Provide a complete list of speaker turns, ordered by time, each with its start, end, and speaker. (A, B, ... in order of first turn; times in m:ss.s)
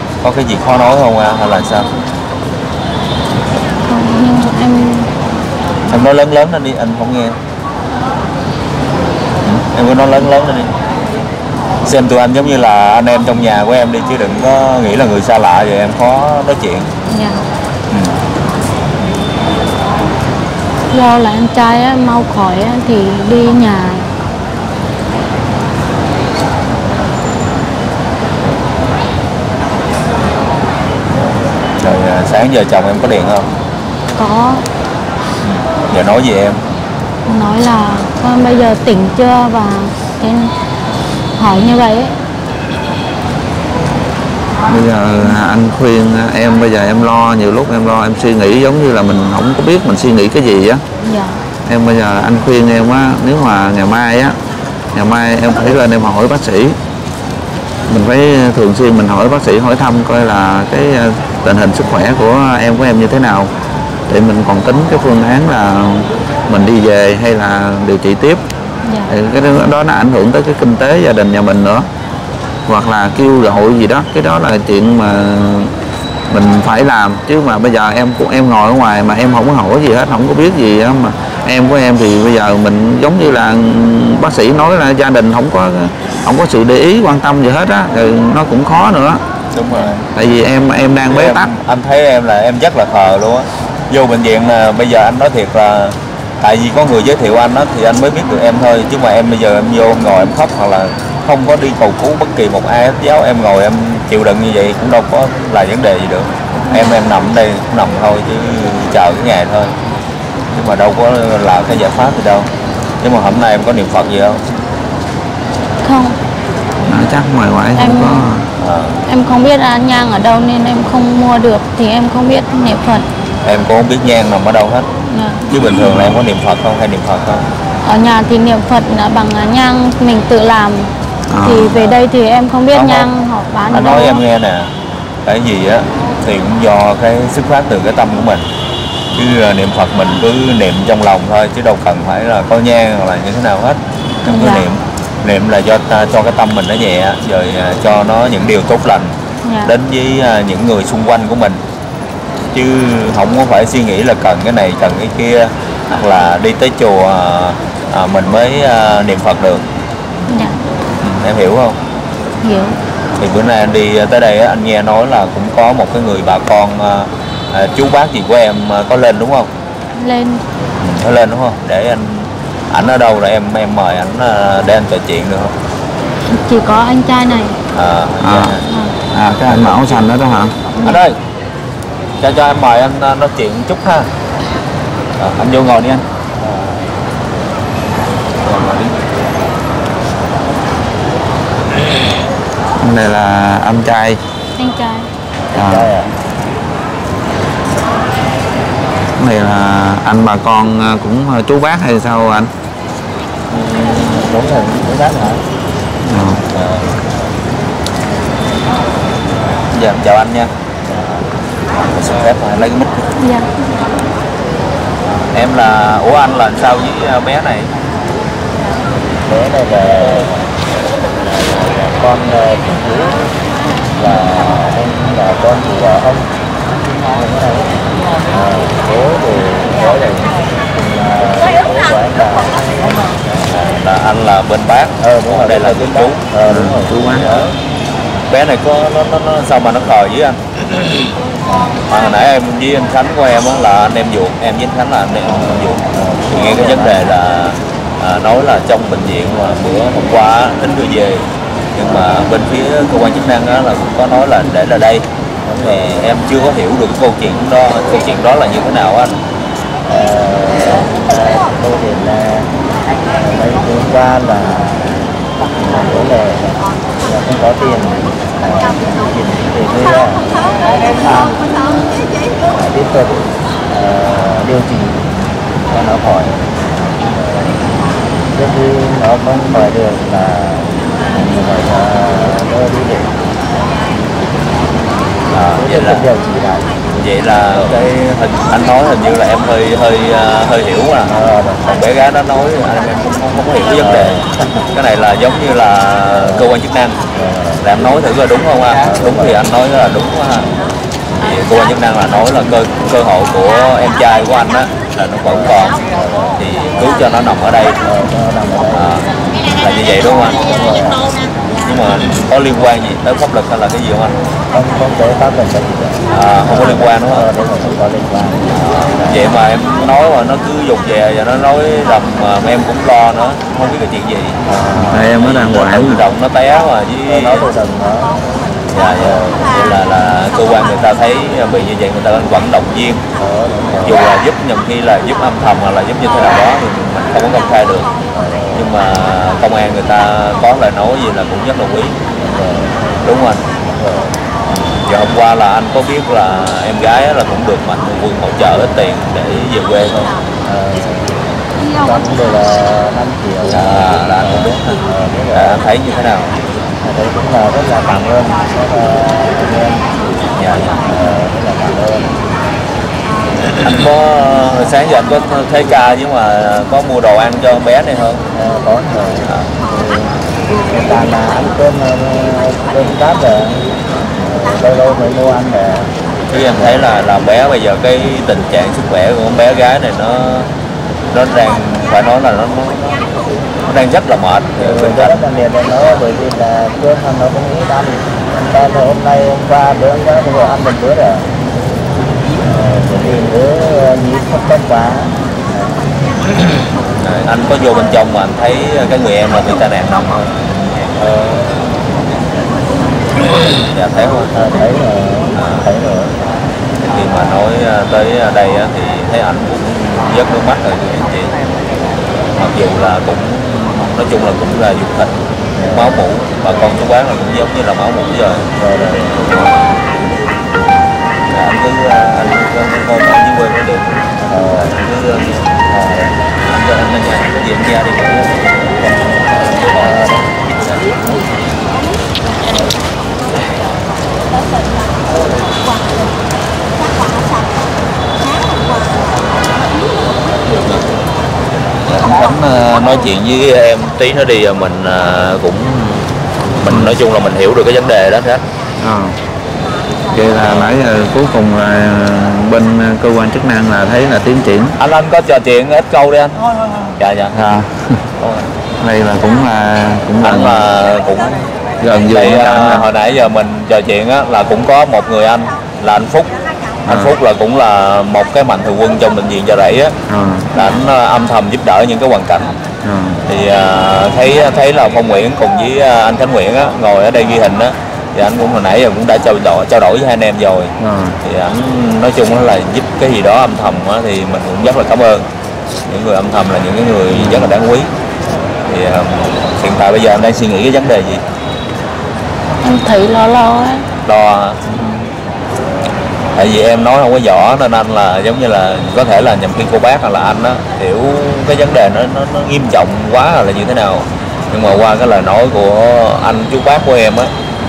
0:00.2-0:01.9 A
0:03.9-0:05.1 B
0:05.9-0:07.4 A
0:09.5-0:10.7 A
0:11.8-0:16.9 A
0:17.1-0:17.4 B
0:17.9-0:18.2 A
0:20.9-0:24.1 B
0:31.8-0:33.5 A
0:34.2-0:34.6 B
0:35.5-0:36.6 A
0:37.3-0:40.5 B
0:41.4-0:42.1 B
0:44.7-0:50.8 C
0:51.0-0:51.4 B
0:51.6-0:54.4 C
0:54.9-0:56.8 C
0:57.9-1:03.5 C
1:04.1-1:08.4 C
1:08.8-1:09.1 B
1:09.1-1:11.9 C
1:12.7-1:15.7 C
1:16.3-1:29.2 C
1:29.5-1:30.0 A
1:29.7-1:30.0 B
1:30.1-1:31.5 C
1:31.1-1:49.7 A
1:46.7-1:47.0 B
1:50.5-1:52.5 A
1:53.0-1:54.4 A
1:55.8-1:56.2 B
1:56.9-1:58.5 C
1:57.8-1:58.2 B
1:58.6-1:59.0 A
1:59.0-2:03.0 B
2:03.4-2:04.9 A
2:05.1-2:05.4 B
2:05.5-2:07.5 A
2:07.8-2:14.2 B
2:11.3-2:11.8 C
2:12.7-2:13.0 C
2:13.7-2:14.7 A
2:15.2-2:18.5 A
2:19.1-2:31.6 A
2:24.3-2:24.7 B
2:29.4-2:29.7 B
2:32.5-2:39.6 A
2:40.3-2:40.6 B
2:41.0-2:41.8 A
2:42.4-2:42.8 B
2:43.2-2:49.5 A
2:49.9-2:50.4 B
2:50.8-2:55.5 A
2:56.3-2:57.6 B
2:57.7-2:58.6 A
2:58.2-2:58.6 C
2:58.6-2:58.9 B
2:59.1-3:00.5 C
2:59.4-3:00.2 A
3:00.8-3:01.2 A
3:02.2-3:04.1 A
3:05.2-3:06.0 A
3:06.4-3:06.9 D
3:08.4-3:08.9 A
3:12.8-3:14.2 C
3:14.6-3:15.1 B
3:15.5-3:15.9 C
3:15.5-3:16.1 D
3:19.2-3:22.5 C
3:23.5-3:25.4 D
3:26.1-3:26.4 C
3:29.7-3:30.5 A
3:30.9-3:31.2 D
3:31.8-3:32.9 A
3:33.2-3:33.5 B
3:35.3-3:37.7 A
3:39.2-3:40.4 D
3:41.2-3:43.2 D
3:44.0-3:46.2 D
3:47.1-3:47.8 D
3:48.3-3:53.5 D
3:53.5-3:56.2 A
3:55.0-3:57.5 D
3:56.5-3:57.3 C
3:58.3-4:00.9 A
4:01.4-4:01.8 D
4:01.9-4:15.0 A
4:05.2-4:07.0 D
4:15.4-4:16.1 D
4:15.6-4:19.1 A
4:19.8-4:22.5 D
4:23.1-4:24.9 D
4:25.6-4:31.4 D
4:32.5-4:35.0 D
4:35.7-4:36.4 D
4:37.0-4:37.6 D
4:38.3-4:43.1 D
4:45.3-4:46.1 A
4:45.6-4:47.8 D
4:47.0-4:51.1 A
4:51.1-4:51.7 D
4:51.6-4:57.0 A
4:53.8-4:54.4 D
4:56.2-4:56.5 D
4:57.1-4:58.0 D
4:57.6-5:00.5 A
4:58.7-4:59.4 D
5:01.1-5:05.8 A
5:05.2-5:06.4 D
5:06.4-5:07.8 A
5:07.8-5:09.0 D
5:08.7-5:10.6 A
5:10.3-5:11.0 D
5:11.6-5:14.2 A
5:14.5-5:19.3 D
5:16.1-5:17.3 A
5:18.5-5:24.4 A
5:24.4-5:25.1 D
5:24.9-5:26.0 C
5:25.0-5:27.5 A
5:27.1-5:28.2 D
5:28.7-5:33.0 A
5:29.0-5:29.4 D
5:33.2-5:34.0 D
5:33.8-5:37.9 A
5:38.1-5:38.7 D
5:38.5-5:42.0 A
5:42.2-5:43.0 D
5:43.0-5:43.4 A
5:43.8-5:44.1 D
5:44.8-5:50.1 A
5:50.4-5:51.2 D
5:51.8-5:55.6 D
5:53.5-5:54.7 A
5:55.3-5:56.4 A
5:56.8-6:02.1 D
6:00.4-6:00.8 A
6:03.6-6:08.2 A
6:08.3-6:10.1 D
6:09.2-6:09.5 A
6:10.7-6:13.6 D
6:14.2-6:15.9 D
6:16.3-6:20.5 A
6:16.5-6:16.8 D
6:21.1-6:23.1 A
6:23.6-6:25.2 A
6:24.6-6:31.3 D
6:32.4-6:35.8 D
6:37.0-6:40.3 A
6:41.0-6:41.8 D
6:43.7-6:44.3 A
6:44.3-6:46.1 D
6:45.3-6:45.6 A
6:46.9-6:51.3 A
6:52.4-6:55.1 A
6:55.6-6:56.0 D
6:55.7-6:58.5 A
6:58.6-6:59.4 D
6:59.1-6:59.6 A
7:01.3-7:04.0 A
7:04.3-7:04.8 D
7:04.6-7:05.4 A
7:05.7-7:06.1 D
7:06.4-7:10.0 A
7:09.8-7:10.3 D
7:10.6-7:10.9 A
7:21.9-7:26.0 A
7:26.6-7:28.4 A
7:26.6-7:27.0 C
7:28.8-7:29.1 C
7:30.1-7:34.8 C
7:30.4-7:30.7 A
7:34.8-7:36.4 A
7:37.0-7:37.4 A
7:37.3-7:37.8 C
7:38.2-7:38.5 A
7:38.8-7:40.6 C
7:40.2-7:41.5 A
7:41.8-7:42.9 C
7:42.0-7:46.3 A
7:46.8-7:47.1 C
7:46.9-7:50.0 A
7:50.1-7:50.5 C
7:50.5-7:52.6 A
7:52.8-7:53.2 C
7:53.3-8:05.3 A
8:00.8-8:01.2 C
8:05.9-8:07.9 A
8:07.1-8:07.5 C
8:08.6-8:11.2 A
8:12.6-8:13.8 B
8:14.0-8:14.6 A
8:16.3-8:27.3 A